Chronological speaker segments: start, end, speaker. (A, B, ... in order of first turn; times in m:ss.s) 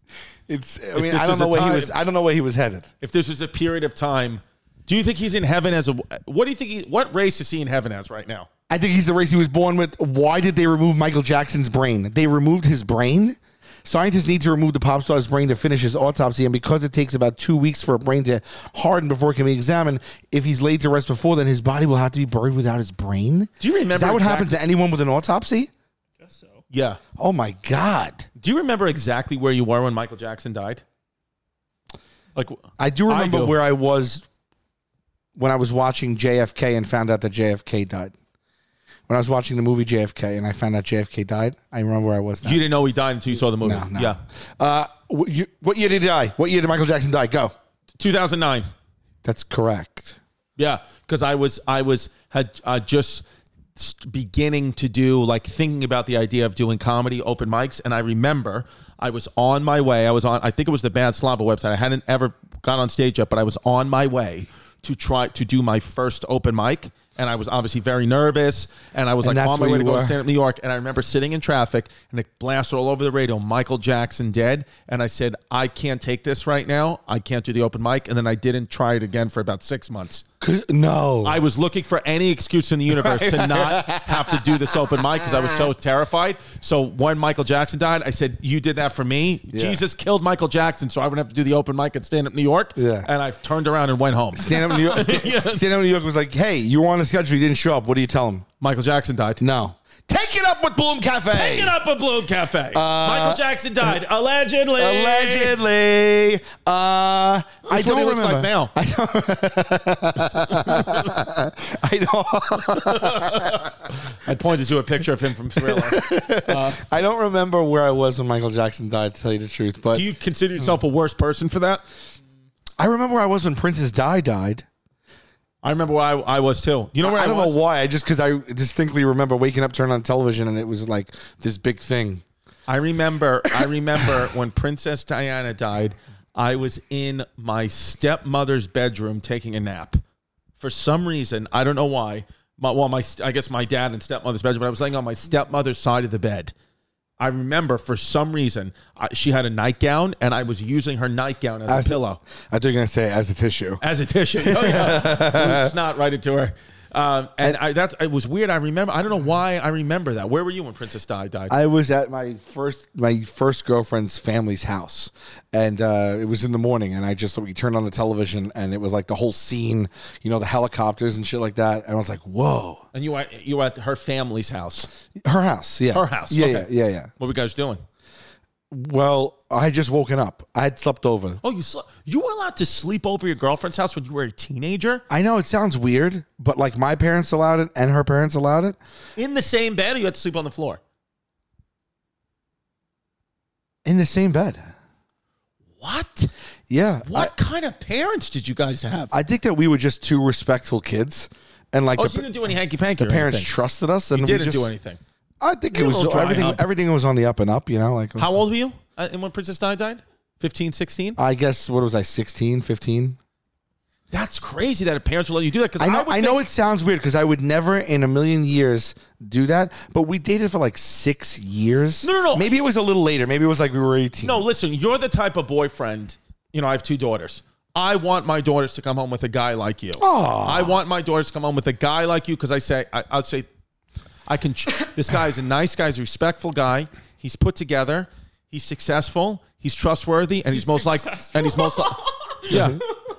0:00.5-0:02.9 A
0:00.9-0:01.9 B
0:03.0-0:08.5 B
0:08.7-0:25.7 A
0:23.6-0:24.5 B
0:26.2-0:26.6 C
0:26.7-0:27.0 B
0:27.2-0:28.3 A
0:28.4-0:30.8 B
0:32.4-0:33.6 B
0:32.8-0:34.2 A
0:35.4-0:38.1 A
0:39.1-0:42.6 A
0:42.4-0:44.2 B
0:43.6-0:47.5 A
0:48.0-0:48.7 B
0:49.2-0:50.2 A
0:50.6-0:53.2 B
0:53.8-1:20.2 B
1:09.2-1:10.2 A
1:20.4-1:21.4 A
1:21.2-1:35.6 B
1:22.9-1:25.6 A
1:29.5-1:29.8 A
1:32.8-1:33.1 A
1:34.3-1:38.4 A
1:38.6-1:39.4 B
1:39.4-1:41.7 A
1:41.3-1:45.6 B
1:42.7-1:43.9 A
1:44.8-1:53.9 A
1:47.6-1:48.7 B
1:50.6-1:51.0 B
1:52.8-1:56.9 B
1:55.6-2:00.0 A
1:59.9-2:01.8 B
2:02.8-2:04.6 A
2:05.6-2:07.6 B
2:07.0-2:12.2 A
2:12.7-2:20.0 B
2:20.6-2:26.5 B
2:27.2-2:32.2 B
2:31.7-2:33.8 A
2:33.8-2:41.5 B
2:34.4-2:35.7 A
2:41.5-2:52.8 A
2:52.9-2:54.9 B
2:55.1-2:57.1 A
2:55.9-2:57.8 B
2:58.7-3:01.4 A
3:01.4-3:05.0 B
3:05.1-3:08.8 A
3:09.2-3:10.8 B
3:13.8-3:14.7 A
3:15.8-3:16.3 B
3:16.7-3:17.3 A
3:17.0-3:19.1 B
3:19.1-3:22.3 A
3:22.0-3:23.5 B
3:23.0-3:24.7 A
3:24.1-3:25.0 B
3:25.4-3:28.3 A
3:25.7-3:26.6 B
3:28.2-3:31.2 B
3:31.2-3:33.2 A
3:34.1-3:36.4 B
3:35.8-3:44.4 A
3:42.0-3:42.6 B
3:44.2-3:53.4 B
3:50.0-3:50.8 A
3:54.3-4:02.8 B
4:00.5-4:02.4 C
4:02.5-4:02.8 A